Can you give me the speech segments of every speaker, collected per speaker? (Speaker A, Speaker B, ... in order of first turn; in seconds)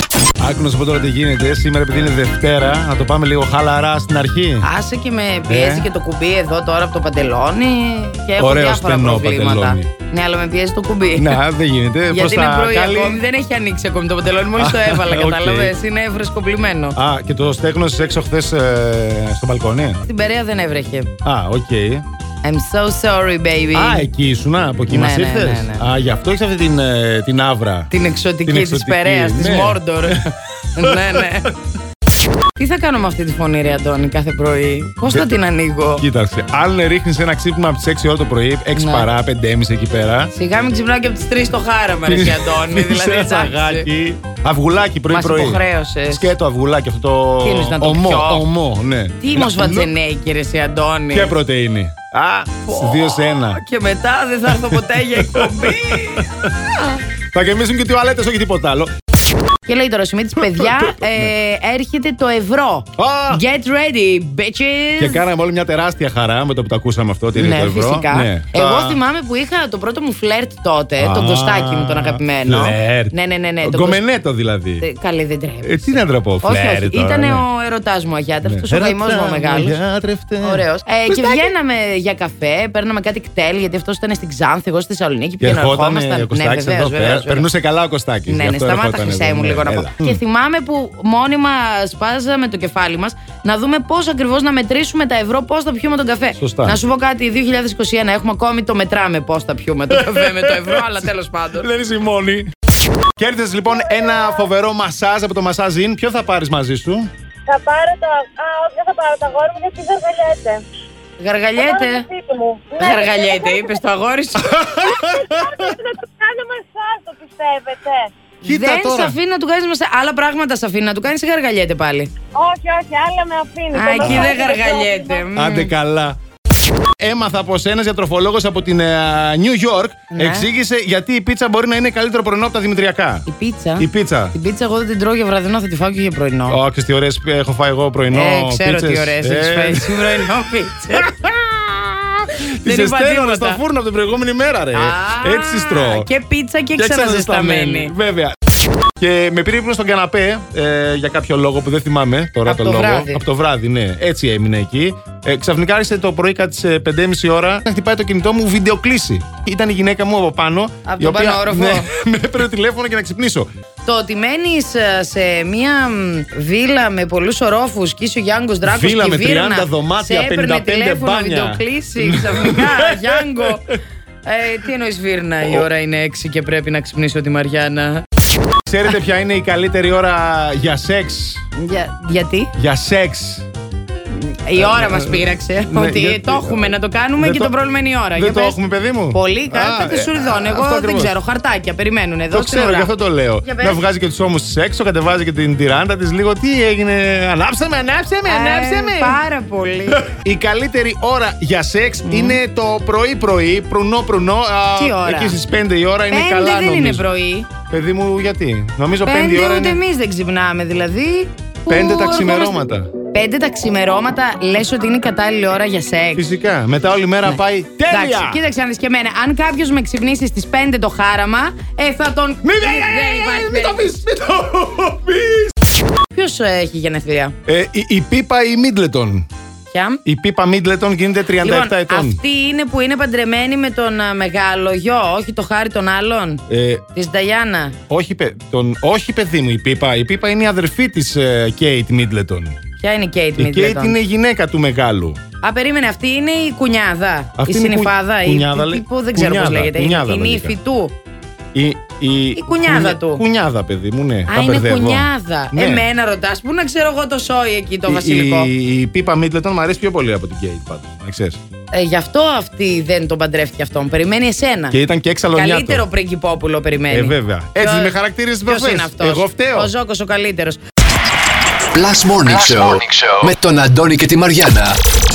Speaker A: 0.4-4.7, 5.5-5.9, 8.4-9.9, 11.2-13.2, 14.6-15.7, 16.9-20.0, 21.2-22.0, 23.7-27.9, 28.4-30.2, 30.8-31.5, 36.0-40.3, 42.0-49.9, 51.1-53.6, 54.5-56.2, 57.3-58.9, 60.4-61.3, 63.0-63.4, 65.0-69.0, 71.0-74.8, 75.6-77.4, 78.4-81.5, 85.4-90.2, 96.4-96.8, 99.9-101.1, 101.6-102.5, 103.2-107.1, 114.4-115.7, 118.4-119.2, 124.0-124.4, 125.3-126.2, 127.0-133.2, 133.8-134.3, 136.5-140.2, 140.9-146.1, 146.8-148.4, 149.0-163.5, 168.6-173.8, 175.4-175.7, 178.6-181.4, 182.6-183.5, 184.6-187.5, 188.2-191.1, 192.3-199.2, 199.9-207.1, 207.7-209.8, 211.7-212.9, 216.2-218.4, 222.4-225.5, 227.4-229.3, 230.0-232.2, 236.5-236.8, 237.9-242.6, 243.4-245.2, 247.3-250.6, 251.5-255.9, 257.9-261.4, 264.7-265.8, 266.9-269.7
Speaker B: 4.6-11.4, 12.1-17.0, 20.0-21.1, 22.4-24.1, 24.9-25.9, 27.9-31.5, 32.5-36.0, 38.7-39.1, 40.3-43.9, 45.1-46.3, 47.4-48.5, 49.2-51.3, 52.6-56.3, 59.6-65.2, 67.3-74.0, 74.8-79.8, 80.4-87.5, 88.3-101.7, 111.2-112.1, 112.8-114.6, 118.4-122.1, 123.7-125.7, 130.1-130.5, 133.2-136.6, 138.1-141.1, 142.6-143.6, 144.7-147.9, 152.4-153.2, 160.8-161.9, 163.8-173.7, 174.2-178.0, 181.6-182.5, 184.1-188.6, 189.1-192.9, 193.4-193.8, 198.2-200.1, 202.0-202.4, 204.7-205.4, 206.1-207.5, 209.0-212.6, 213.1-216.2, 217.2-224.0, 226.1-227.3, 229.7-230.0, 231.4-236.4, 236.9-237.8, 242.8-244.0, 245.4-250.9, 252.3-253.2, 254.3-258.5, 261.7-264.8, 265.3-270.6
Speaker C: 103.7-104.3, 107.5-110.6, 111.6-113.8, 114.9-118.1, 122.3-125.3
Speaker D: 271.7-274.8